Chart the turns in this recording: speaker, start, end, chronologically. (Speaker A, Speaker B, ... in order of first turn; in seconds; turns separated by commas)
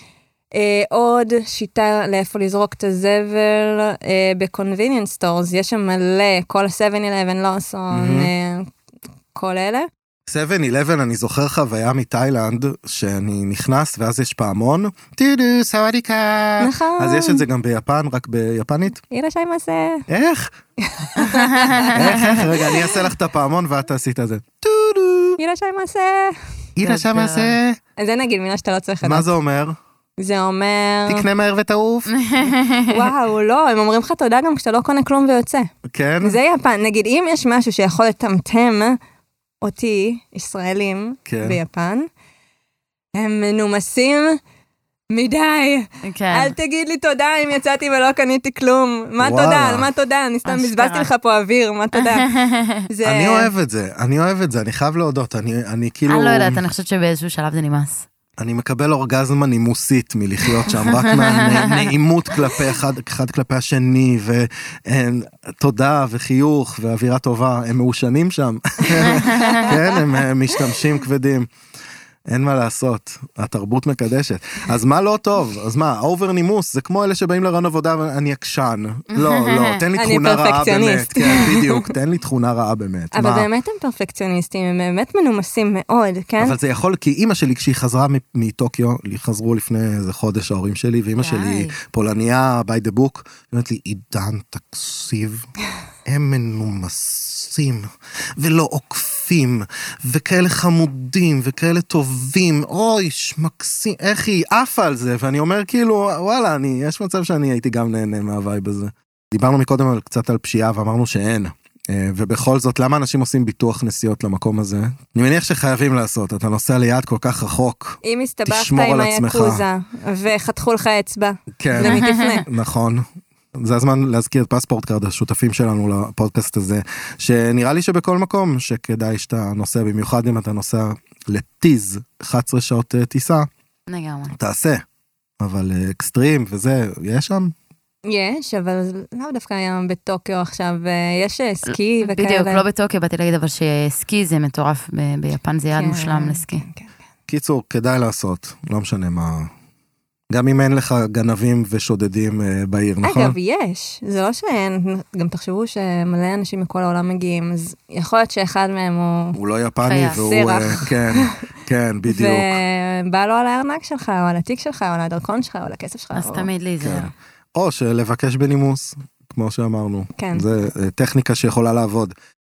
Speaker A: 0.5-8.7, Speaker B: 7.9-8.3, Speaker A: 9.3-9.9, Speaker B: 10.3-19.0, Speaker A: 16.6-17.4, Speaker A: 19.1-20.1, Speaker B: 20.1-20.5, Speaker A: 20.8-21.9, Speaker C: 21.2-22.4, Speaker B: 21.9-25.4, Speaker A: 22.6-22.9, Speaker A: 25.4-26.4, Speaker B: 26.8-27.8, Speaker C: 26.8-27.6, Speaker A: 28.0-29.3, Speaker B: 29.0-29.8, Speaker A: 30.2-31.2, Speaker B: 31.1-32.1, Speaker C: 32.1-33.1, Speaker A: 32.9-35.7, Speaker B: 35.8-36.4, Speaker A: 36.2-39.0, Speaker A: 39.6-42.1, Speaker B: 41.3-41.6, Speaker A: 43.1-44.4, Speaker A: 45.1-52.3, Speaker C: 46.0-46.5, Speaker B: 49.2-49.9, Speaker C: 50.4-51.1, Speaker C: 51.9-52.9, Speaker A: 52.9-53.5, Speaker B: 53.0-56.6, Speaker C: 56.1-58.0, Speaker B: 58.4-71.5, Speaker C: 60.7-61.9, Speaker C: 69.1-69.7, Speaker B: 72.3-83.5, Speaker C: 79.1-79.8, Speaker A: 80.0-81.9, Speaker A: 83.1-86.6, Speaker B: 86.4-95.5, Speaker C: 91.2-91.8, Speaker B: 96.0-119.6, Speaker A: 118.0-122.4, Speaker B: 121.6-133.5, Speaker C: 121.8-122.4, Speaker C: 133.9-134.3, Speaker B: 134.3-134.8, Speaker B: 135.4-137.5, Speaker A: 138.0-142.6, Speaker C: 141.7-146.6, Speaker A: 145.7-146.9, Speaker B: 147.3-149.5, Speaker B: 150.3-153.3, Speaker A: 153.0-159.4, Speaker B: 159.3-162.6, Speaker C: 159.8-160.3, Speaker A: 160.1-161.3, Speaker A: 162.1-166.5, Speaker C: 166.1-167.1, Speaker B: 166.8-172.1, Speaker A: 170.2-170.5